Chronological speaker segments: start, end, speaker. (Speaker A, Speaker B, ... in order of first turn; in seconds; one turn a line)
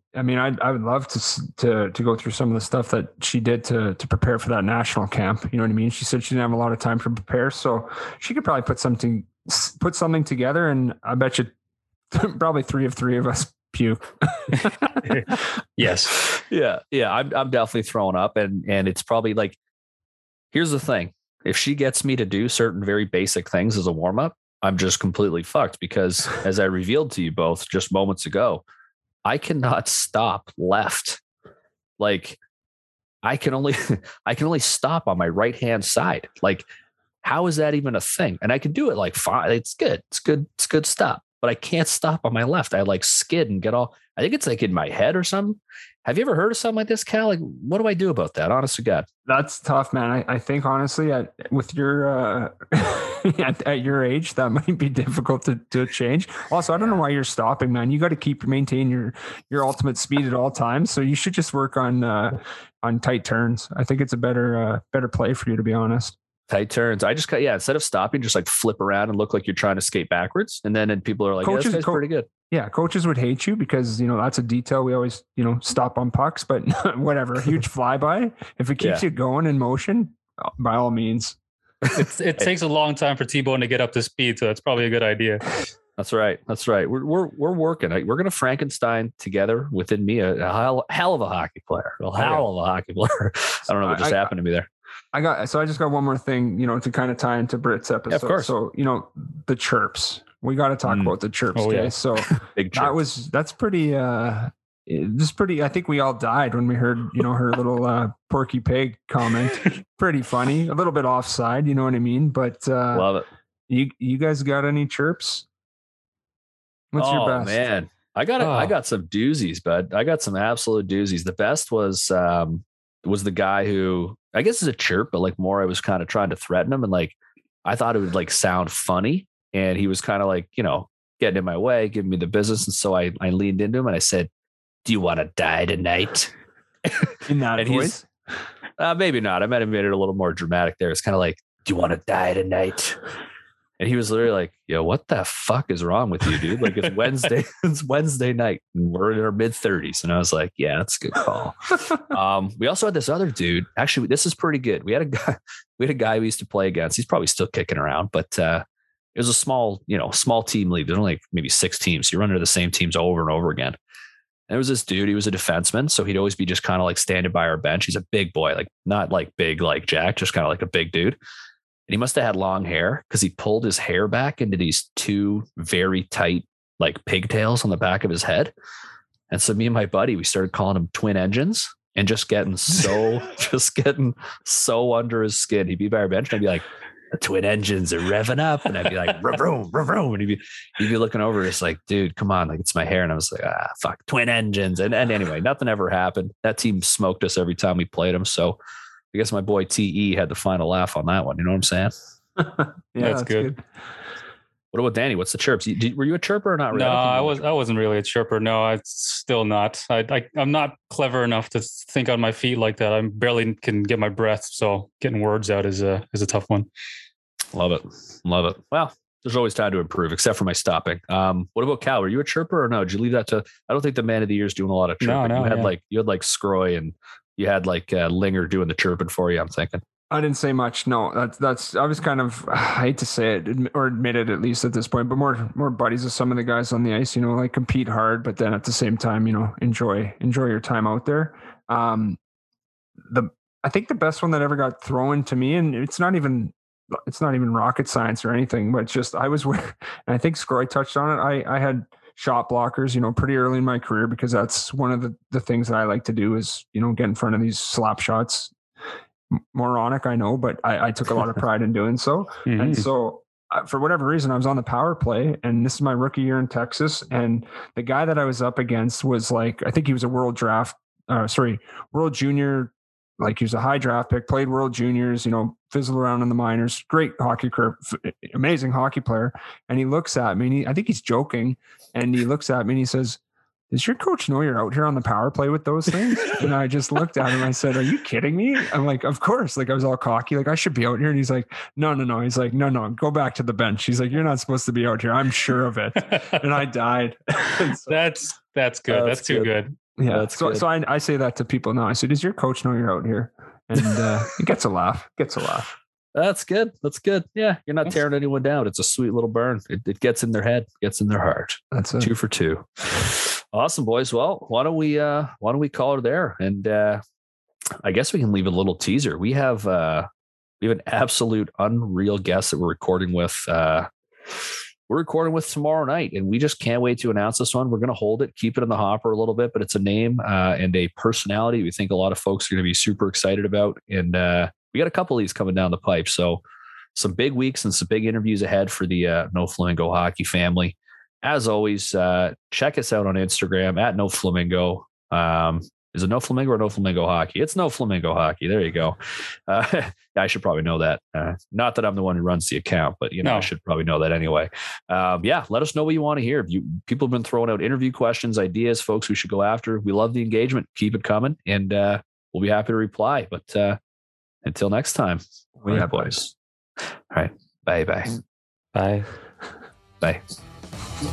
Speaker A: 0.1-11.5
Speaker A: 12.1-15.1
Speaker B: 14.6-16.2
Speaker C: 16.2-19.6
Speaker C: 20.5-28.6
Speaker C: 29.2-31.2
Speaker C: 32.0-32.4
Speaker C: 33.2-36.6
Speaker C: 37.2-49.1
Speaker A: 49.2-66.2
Speaker C: 66.5-72.3
Speaker A: 71.4-81.4
Speaker C: 78.8-79.0
Speaker C: 81.8-82.5
Speaker B: 81.9-85.6
Speaker C: 86.0-94.7
Speaker A: 93.8-94.3
Speaker A: 95.1-113.1
Speaker C: 98.1-98.5
Speaker C: 100.8-101.1
Speaker B: 101.5-101.9
Speaker C: 102.3-102.9
Speaker C: 112.9-113.2
Speaker A: 113.7-115.5
Speaker A: 116.9-117.6
Speaker C: 117.0-134.3
Speaker B: 118.4-118.7
Speaker C: 134.8-136.3
Speaker C: 136.8-137.9
Speaker A: 137.3-138.1
Speaker C: 138.8-143.0
Speaker C: 143.8-158.6
Speaker C: 159.1-163.8
Speaker C: 164.5-171.2
Speaker C: 171.9-178.5
Speaker C: 179.3-198.6
Speaker C: 199.1-201.9
Speaker A: 202.4-203.6
Speaker B: 203.0-203.5
Speaker C: 204.7-207.4
Speaker B: 206.7-216.7
Speaker C: 217.5-229.8
Speaker B: 225.0-225.7
Speaker A: 230.1-242.2
Speaker A: 243.1-258.5
Speaker A: 259.5-283.2
Speaker B: 262.4-262.9
Speaker A: 283.7-298.0
Speaker B: 296.1-296.4
Speaker B: 297.9-299.7
Speaker C: 298.9-299.5
Speaker A: 300.0-305.7
Speaker C: 300.1-300.6
Speaker C: 306.1-317.0
Speaker A: 311.7-312.1
Speaker C: 317.8-320.1
Speaker C: 320.6-336.4
Speaker C: 336.9-363.8
Speaker B: 353.2-353.5
Speaker C: 364.4-366.3
Speaker A: 365.6-366.1
Speaker C: 367.1-368.1
Speaker B: 368.7-369.1